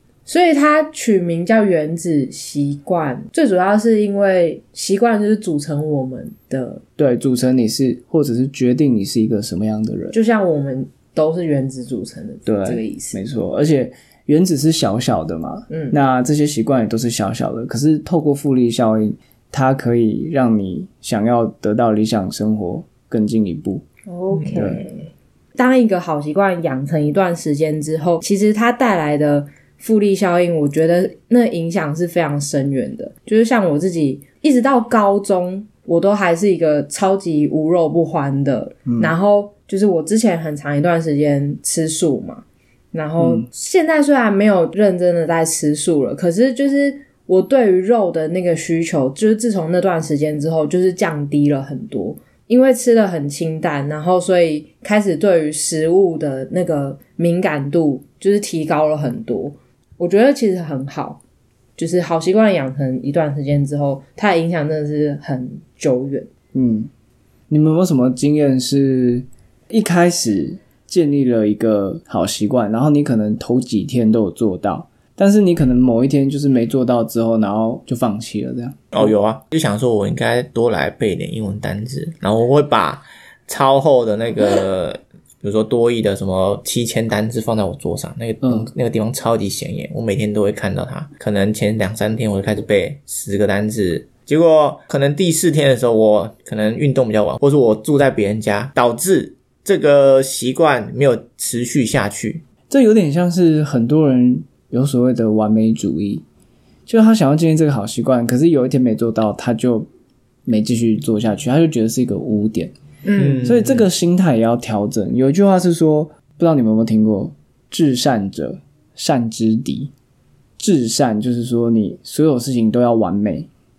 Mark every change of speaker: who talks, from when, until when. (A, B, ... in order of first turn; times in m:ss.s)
0:00.2-0:06.8 A
0:07.0-0:10.2 B
0:10.1-0:13.2 A
0:12.4-0:23.8 B
0:15.7-0:16.0 A
0:24.1-1:01.2 A
0:24.5-0:24.8 B
0:38.8-0:39.1 B
0:43.2-0:43.5 B
1:01.8-1:06.3 A
1:06.5-1:06.9 B
1:07.5-1:19.1 B
1:18.9-1:42.4 C
1:28.4-1:28.7 B
1:42.7-1:46.2 B
1:46.9-1:49.9 B
1:50.4-1:52.7 B
1:53.0-1:53.5 A
1:53.2-1:53.8 C
1:53.4-1:59.9 B
2:00.6-2:03.5 B